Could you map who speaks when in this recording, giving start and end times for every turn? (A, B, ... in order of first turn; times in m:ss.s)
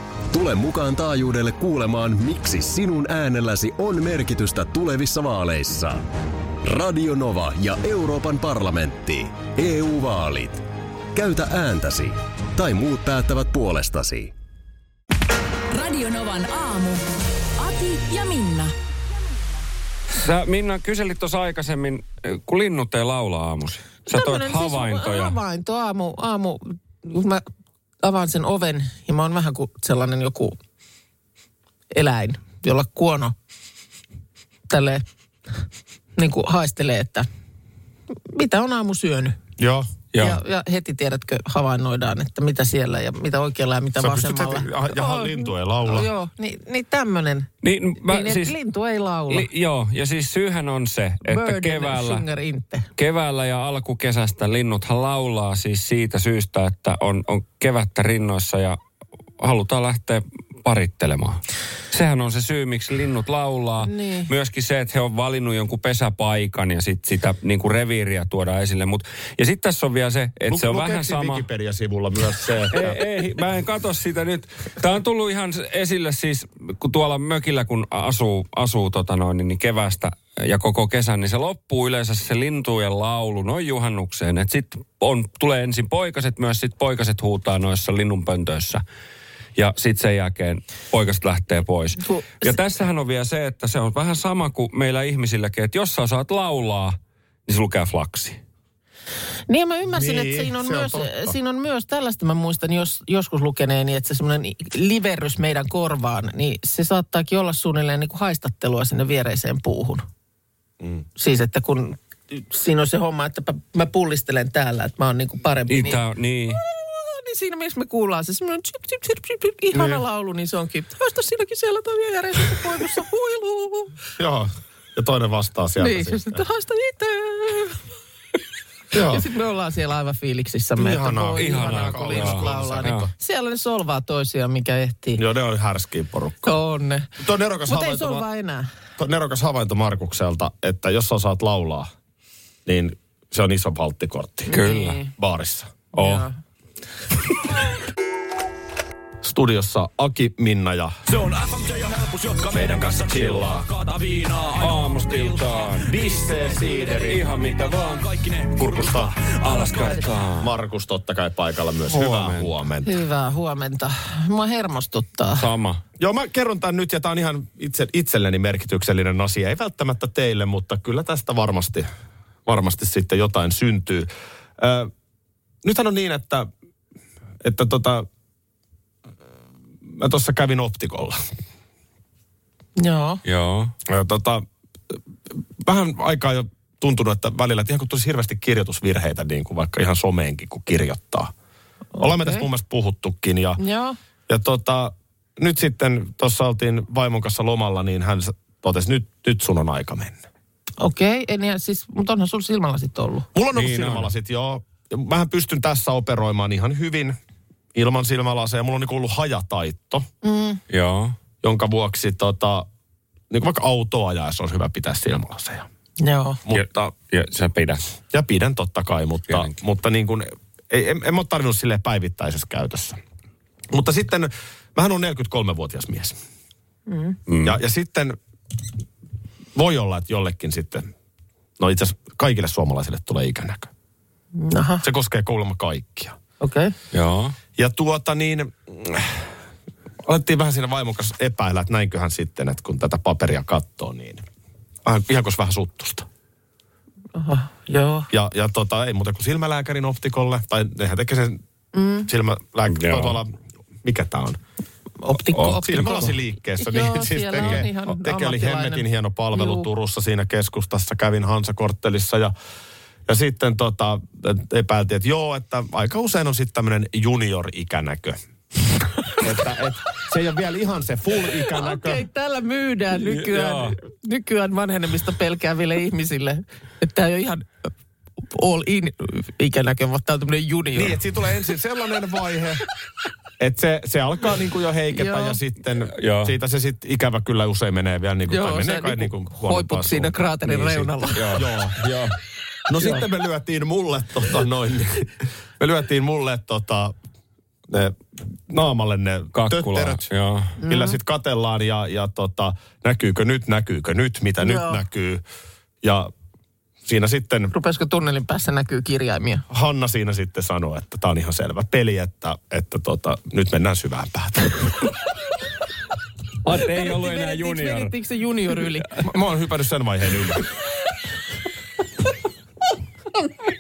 0:00.3-0:06.0 A
0:06.6-0:10.6 A
0:11.1-0:14.3 A
0:15.7-0:17.0 B
0:17.6-0:18.7 B
0:20.1-0:25.4 C
0:24.1-0:27.4 D
0:28.0-0:30.6 D
0:31.9-0:33.4 D
0:34.7-0:35.0 D
0:36.2-0:37.3 D
0:38.1-0:39.4 D
0:39.6-0:39.9 E
0:40.1-0:40.4 C
0:40.2-0:47.5 D
0:44.0-0:46.1 E
0:47.6-0:48.6 C
0:48.0-0:49.5 D
0:49.3-0:52.2 C
0:51.2-0:52.9 D
0:53.0-0:58.8 C
0:59.4-1:11.4 C
1:03.8-1:04.3 D
1:10.5-1:13.0 E
1:12.7-1:28.8 C
1:29.6-1:37.0 C
1:32.0-1:32.6 D
1:37.5-1:38.4 C
1:39.5-1:50.1 D
1:39.9-1:41.4 E
1:51.2-1:56.0 D
1:55.7-1:56.6 C
1:56.6-2:04.0 D
1:59.7-2:00.0 E
2:04.2-2:06.4 E
2:05.8-2:07.8 D
2:08.9-2:09.2 E
2:09.0-2:15.2 D
2:10.8-2:13.1 E
2:11.4-2:13.1 C
2:15.2-2:16.6 E
2:16.4-2:17.1 D
2:17.2-2:18.2 E
2:17.7-2:18.7 D
2:19.0-2:21.9 E
2:22.7-2:24.6 E
2:24.5-2:25.1 D
2:24.5-2:25.0 C
2:25.2-2:25.8 E
2:25.9-2:26.3 D
2:26.0-2:26.2 C
2:29.2-2:31.0 E
2:31.2-2:32.5 F
2:32.4-2:33.7 E
2:33.8-2:35.6 F
2:34.5-2:36.2 C
2:35.9-2:37.3 E
2:36.8-2:40.5 C
2:38.6-2:39.3 E
2:40.3-2:43.0 E
2:41.9-2:42.5 C
2:42.8-2:45.4 D
2:45.4-2:45.8 C
2:46.0-2:51.9 E
2:52.5-2:54.9 E
2:55.6-2:56.5 E
2:57.4-2:58.1 E
2:59.9-3:01.2 E
3:02.8-3:03.2 D
3:03.2-3:03.7 C
3:03.9-3:11.3 E
3:12.0-3:12.5 D
3:12.0-3:13.6 E
3:13.6-3:14.0 D
3:14.3-3:20.2 E
3:20.8-3:23.3 D
3:23.3-3:27.2 E
3:23.5-3:24.1 C
3:27.8-3:30.1 E
3:30.2-3:30.6 D
3:30.7-3:31.2 C
3:31.4-3:32.7 E
3:33.3-3:35.7 E
3:36.0-3:36.4 D
3:36.4-3:36.9 E
3:36.5-3:37.8 C
3:38.1-3:43.0 E
3:43.7-3:46.2 E
3:46.9-3:47.2 D
3:47.3-3:47.6 C
3:47.4-3:48.2 E
3:49.6-3:50.9 E
3:51.6-3:53.7 E
3:54.4-3:54.8 D
3:54.8-3:56.2 E
3:56.4-3:56.7 D
3:56.9-3:57.4 C
3:57.6-3:59.3 E
4:00.0-4:04.2 E
4:04.8-4:06.1 E
4:07.2-4:08.1 D
4:08.1-4:11.4 E
4:11.7-4:12.1 D
4:12.1-4:14.4 E
4:12.7-4:13.2 C
4:15.0-4:19.7 D
4:15.2-4:22.3 E
4:23.1-4:28.2 E
4:29.1-4:32.0 E
4:31.5-4:37.5 D
4:32.9-4:33.8 C
4:38.2-4:41.0 D
4:40.7-4:42.6 E
4:43.4-4:50.5 E
4:44.9-4:45.4 D
4:45.9-4:46.3 C
4:48.3-4:51.4 D
4:50.6-4:52.2 C
4:51.3-4:51.8 E
4:52.7-4:57.0 E
4:57.7-5:00.1 E
4:59.4-5:00.6 C
5:00.6-5:01.0 D
5:00.6-5:05.2 E
5:04.4-5:04.8 D
5:05.8-5:06.1 E
5:06.8-5:07.5 E
5:07.5-5:09.4 D
5:09.5-5:14.9 E
5:16.4-5:17.9 C
5:16.6-5:19.0 D
5:19.0-5:20.4 E